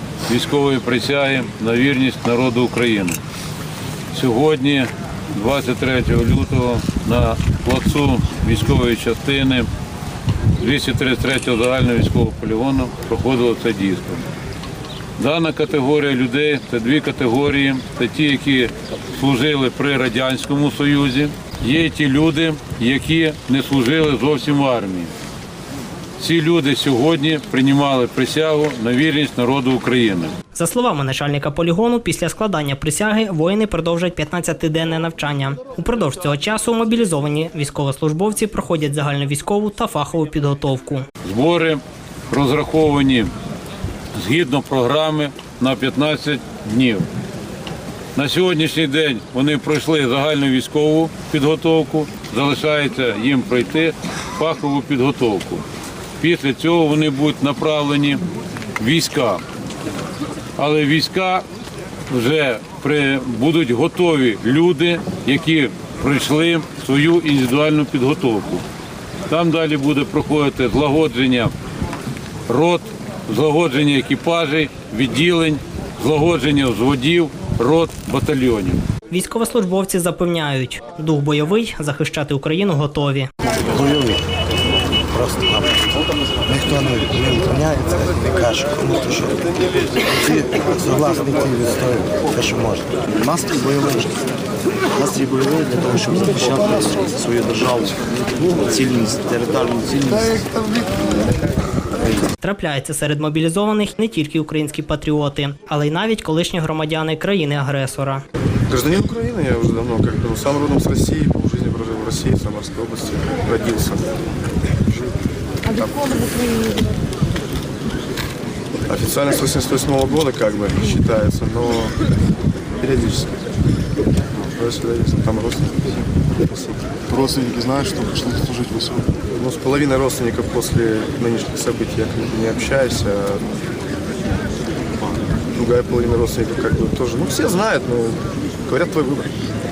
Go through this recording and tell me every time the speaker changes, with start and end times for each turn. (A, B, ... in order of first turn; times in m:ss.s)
0:00.3-0:03.2 A
0:04.1-0:09.7 A
0:10.6-0:14.2 A
0:15.2-0:25.1 A
0:26.2-0:30.3 A
0:30.5-0:41.0 B
0:41.2-0:43.3 A
0:44.1-0:47.0 A
0:48.2-0:55.6 A
0:56.2-0:58.2 A
0:58.8-0:59.4 A
1:00.6-1:01.4 A
1:02.1-1:08.6 A
1:09.3-1:11.5 A
1:12.5-1:18.8 A
1:19.1-1:23.3 B
1:23.5-1:24.2 C
1:25.1-1:34.3 C
1:34.9-1:41.2 C
1:42.4-1:48.2 B
1:48.7-1:54.2 D
1:55.6-1:56.6 D
1:58.9-2:02.0 D
2:02.8-2:03.4 D
2:04.3-2:06.8 D
2:07.1-2:09.2 E
2:09.3-2:13.4 D
2:15.5-2:19.3 D